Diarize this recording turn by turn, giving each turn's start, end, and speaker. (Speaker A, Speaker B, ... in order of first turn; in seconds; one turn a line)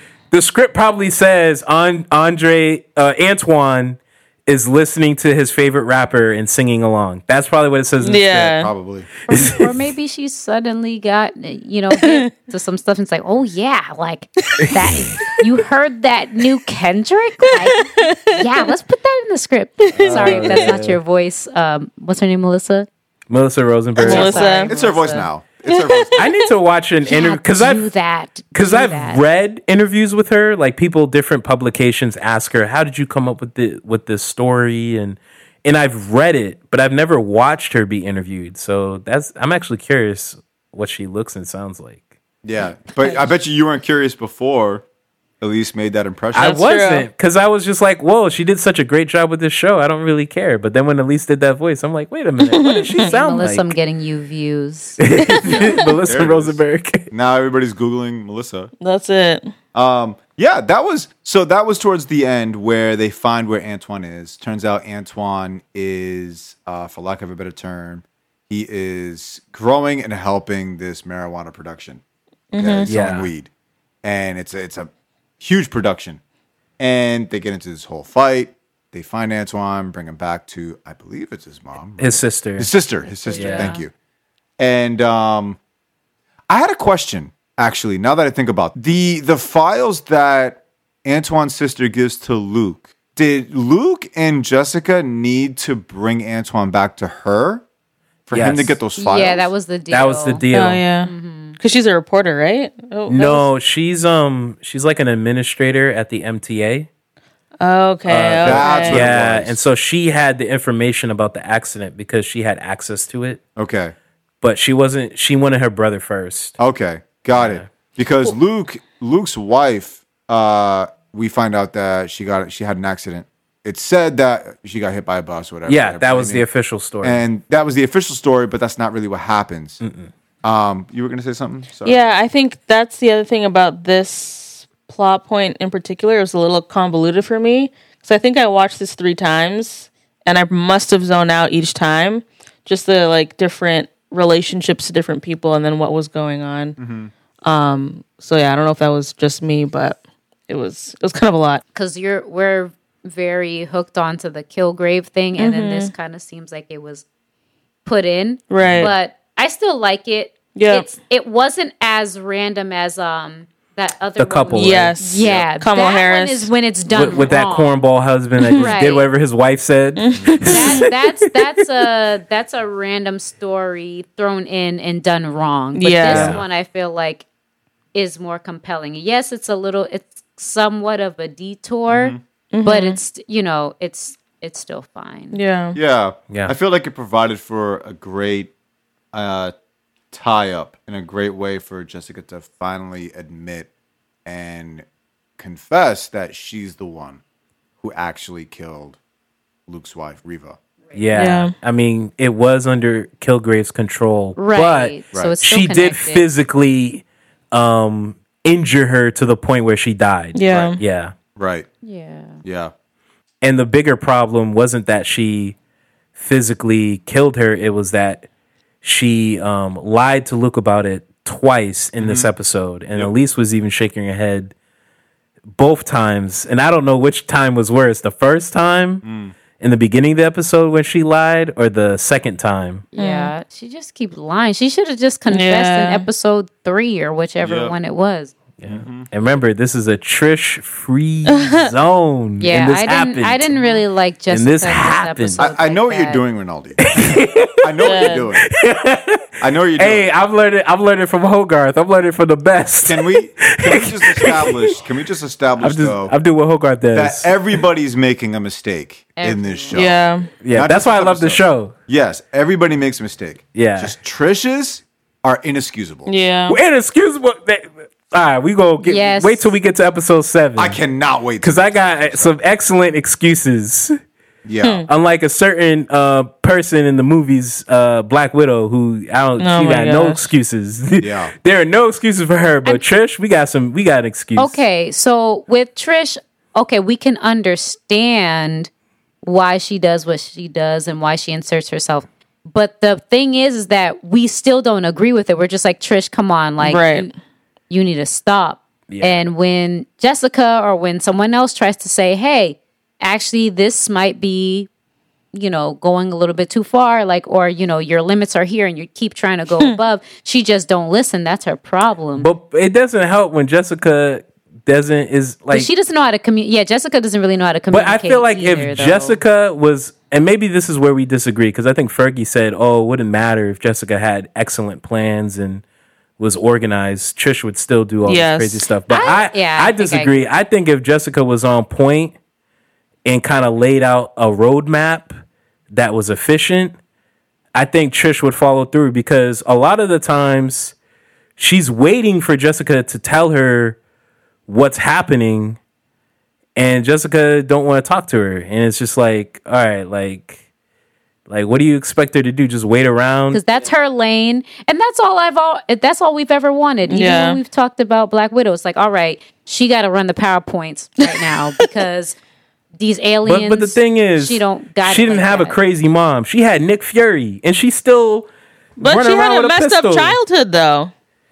Speaker A: 0.3-8.5
Speaker B: 8.0-8.7
Speaker C: 8.3-9.1
Speaker A: 9.3-9.7
Speaker D: 9.3-22.9
Speaker B: 12.0-12.3
Speaker B: 17.4-18.6
Speaker B: 20.0-20.7
Speaker A: 20.0-21.0
Speaker A: 23.3-24.6
Speaker C: 24.0-26.3
Speaker D: 24.0-25.3
Speaker B: 24.0-24.7
Speaker B: 25.7-26.5
Speaker A: 26.1-27.9
Speaker D: 27.1-29.2
Speaker A: 28.5-42.0
Speaker C: 42.4-44.8
Speaker C: 45.4-46.6
Speaker A: 46.3-53.7
Speaker B: 46.4-47.1
Speaker B: 52.4-53.1
Speaker D: 53.0-55.0
Speaker A: 55.0-57.1
Speaker B: 55.3-55.7
Speaker C: 55.5-58.7
Speaker B: 58.8-59.5
Speaker C: 59.7-72.0
Speaker B: 72.5-72.9
Speaker C: 72.5-73.5
Speaker A: 72.9-73.3
Speaker C: 74.0-76.2
Speaker C: 76.8-83.9
Speaker A: 82.0-82.7
Speaker D: 83.2-83.8
Speaker A: 83.3-83.8
Speaker C: 84.6-85.6
Speaker C: 86.5-97.6
Speaker C: 98.3-99.5
Speaker A: 98.3-98.8
Speaker D: 99.0-100.5
Speaker A: 99.9-100.8
Speaker B: 100.5-103.5
Speaker D: 101.0-101.6
Speaker A: 103.1-106.9
Speaker B: 107.6-109.0
Speaker A: 108.1-113.4
Speaker C: 108.4-109.6
Speaker D: 108.6-109.0
Speaker C: 113.6-113.9
Speaker A: 114.4-116.6
Speaker C: 116.6-126.4
Speaker A: 117.3-117.6
Speaker A: 125.7-127.2
Speaker C: 127.0-129.8
Speaker A: 129.8-130.1
Speaker C: 130.4-132.2
Speaker B: 131.8-146.8
Speaker C: 146.8-147.1
Speaker B: 147.4-151.6
Speaker D: 151.8-157.0
Speaker B: 155.4-155.9
Speaker D: 157.8-167.8
Speaker B: 158.5-158.9
Speaker B: 160.5-160.9
Speaker A: 164.2-165.3
Speaker B: 164.5-167.2
Speaker A: 166.9-170.9
Speaker B: 168.4-168.7
Speaker D: 168.5-169.1
Speaker B: 170.0-170.9
Speaker C: 170.1-170.5
Speaker D: 170.5-177.2
Speaker B: 175.7-176.4
Speaker A: 176.1-176.4
Speaker D: 177.9-185.4
Speaker C: 181.9-182.2
Speaker B: 182.5-183.0
Speaker B: 185.3-185.8
Speaker C: 185.8-188.5
Speaker C: 189.1-189.5
Speaker C: 190.1-193.7
Speaker C: 194.2-194.8
Speaker C: 195.4-197.2
Speaker C: 197.8-199.0
Speaker C: 199.7-200.6
Speaker A: 200.9-211.1
Speaker B: 201.2-201.5
Speaker D: 204.4-206.2
Speaker B: 210.3-210.8
Speaker C: 211.3-211.7
Speaker D: 211.8-212.4
Speaker C: 212.4-212.7
Speaker A: 213.4-215.6
Speaker A: 216.2-218.3
Speaker A: 218.8-224.5
Speaker C: 222.0-222.3
Speaker A: 225.6-229.0
Speaker C: 229.0-229.3
Speaker A: 229.6-232.9
Speaker D: 232.9-238.3
Speaker B: 232.9-233.3
Speaker B: 235.3-236.1
Speaker C: 237.4-237.8
Speaker A: 238.6-245.4
Speaker C: 238.7-239.1
Speaker B: 241.3-241.7
Speaker D: 242.4-246.2
Speaker C: 245.4-248.5
Speaker A: 246.8-254.8
Speaker B: 247.8-248.3
Speaker C: 249.4-250.1
Speaker C: 252.8-256.1
Speaker A: 255.6-257.6
Speaker C: 256.9-260.0
Speaker D: 259.2-259.8
Speaker B: 259.7-260.3
Speaker A: 260.4-261.7
Speaker C: 260.5-266.1
Speaker A: 263.5-263.9
Speaker B: 266.1-266.6
Speaker A: 266.5-270.8
Speaker D: 268.8-269.5
Speaker C: 270.6-272.4
Speaker A: 271.4-273.9
Speaker C: 274.4-274.9
Speaker B: 274.6-274.9
Speaker A: 274.9-284.6
Speaker B: 279.4-280.3
Speaker C: 281.0-281.3
Speaker D: 284.4-288.7
Speaker D: 289.2-297.1
Speaker B: 296.6-297.1
Speaker D: 297.7-304.7
Speaker A: 298.9-299.2
Speaker D: 305.3-312.3
Speaker A: 312.2-315.7
Speaker D: 315.5-319.2
Speaker A: 317.7-325.6
Speaker A: 326.2-332.1
Speaker B: 328.0-328.6
Speaker D: 328.9-330.1
Speaker A: 333.0-335.1
Speaker A: 335.7-336.8
Speaker A: 337.5-340.8
Speaker A: 341.4-343.8
Speaker A: 344.5-345.6
Speaker A: 346.6-350.4
Speaker A: 351.3-353.4
Speaker D: 353.3-362.1
Speaker B: 356.9-357.4
Speaker B: 361.1-361.6
Speaker D: 362.8-365.6
Speaker A: 363.2-368.3
Speaker A: 368.8-370.2
Speaker B: 368.8-370.9